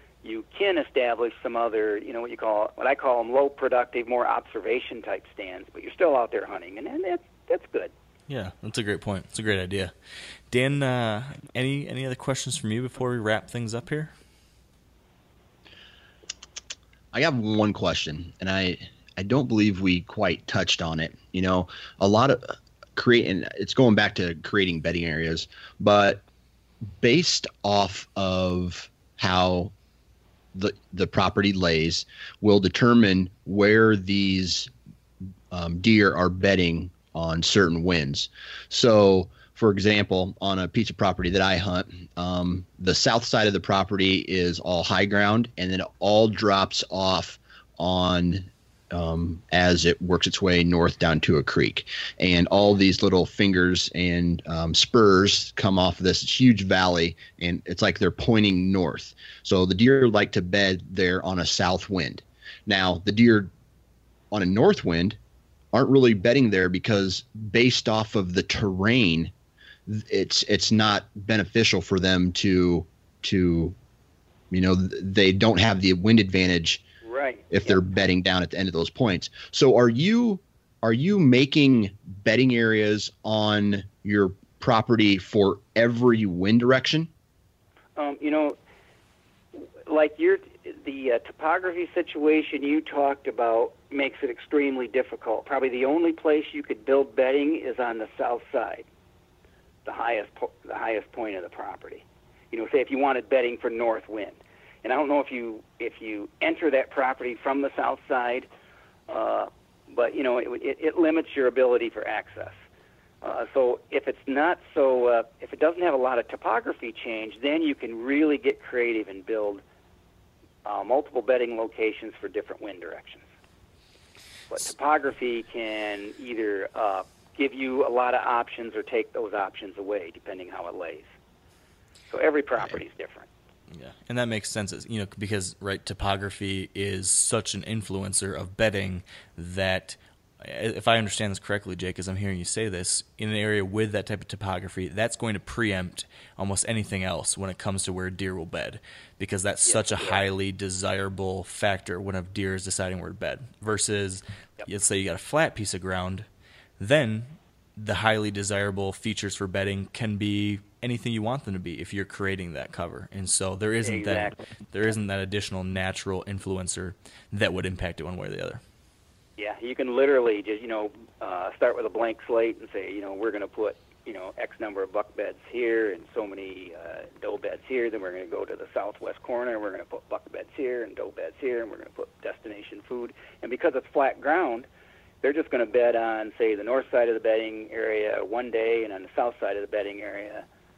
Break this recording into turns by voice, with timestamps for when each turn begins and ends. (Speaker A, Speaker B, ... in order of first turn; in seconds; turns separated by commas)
Speaker A: 0.2-7.9, Speaker B: 8.3-9.9, Speaker B: 10.5-14.1, Speaker C: 17.1-26.2, Speaker C: 27.0-29.7, Speaker C: 30.5-34.7, Speaker C: 35.5-63.5, Speaker C: 64.3-65.2, Speaker C: 65.7-69.3, Speaker C: 69.9-73.7, Speaker C: 74.5-76.8, Speaker A: 77.0-77.8, Speaker C: 77.5-87.1, Speaker A: 88.0-88.5, Speaker A: 89.5-98.9, Speaker A: 99.8-108.5, Speaker A: 109.1-112.5, Speaker A: 113.2-119.6, Speaker A: 120.6-123.2, Speaker A: 124.5-131.1, Speaker A: 132.1-133.3, Speaker B: 133.7-156.2, Speaker A: 149.7-150.2, Speaker B: 156.8-168.6, Speaker A: 163.8-164.4, Speaker A: 169.4-184.7, Speaker A: 185.2-190.4